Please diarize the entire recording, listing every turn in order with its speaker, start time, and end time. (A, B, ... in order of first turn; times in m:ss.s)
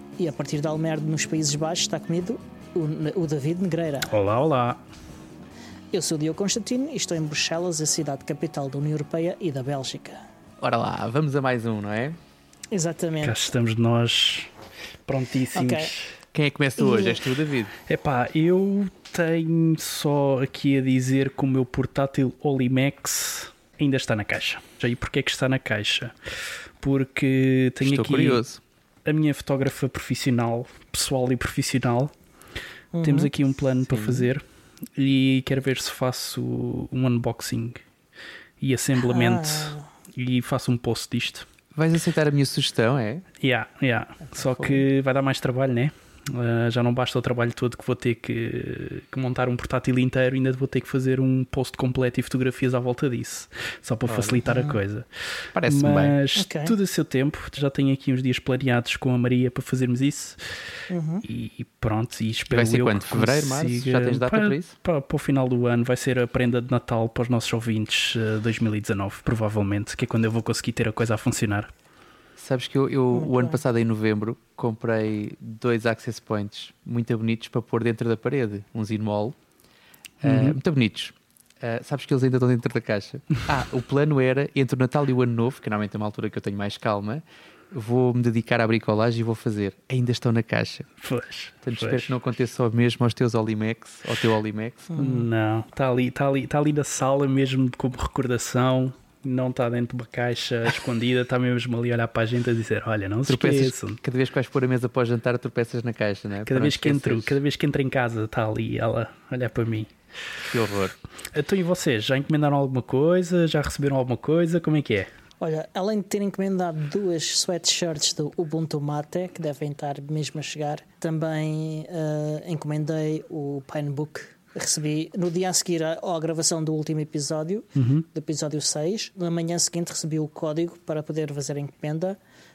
0:00.2-0:04.2 A
0:04.1-0:04.8 B
0:05.9-0:10.2 A
0:10.6-0:12.2 C
0:12.7-0:13.4 A
0:13.2-0:14.5 B
0:15.0-0:16.1 B
0:15.5-0:15.9 A
0:16.3-0:17.7 C
0:16.8-0:17.2 A
0:17.9-0:28.4 B
0:27.8-0:28.6 C
0:29.0-0:32.1 B
0:32.9-0:33.3 A
0:33.0-0:34.4 B
0:33.8-0:34.3 C
0:34.9-0:37.8 B
0:38.6-0:41.4 B
0:39.0-0:39.9 A
0:41.7-0:43.2 C
0:43.4-1:00.4 B
0:44.3-0:44.8 C
0:54.1-0:54.4 C
0:54.5-0:54.8 A
0:55.5-0:56.2 C
0:56.4-0:56.7 A
1:00.9-1:01.2 A
1:01.2-1:11.7 B
1:02.5-1:04.7 C
1:12.4-1:19.4 C
1:13.1-1:13.6 A
1:20.2-1:30.9 C
1:20.2-1:20.6 B
1:31.0-1:32.1 B
1:31.6-1:34.9 C
1:34.9-1:35.3 A
1:35.0-1:44.0 B
1:43.3-1:47.4 C
1:46.4-1:49.9 B
1:50.5-1:51.0 C
1:51.3-1:55.1 B
1:55.4-2:12.2 A
2:07.8-2:08.0 B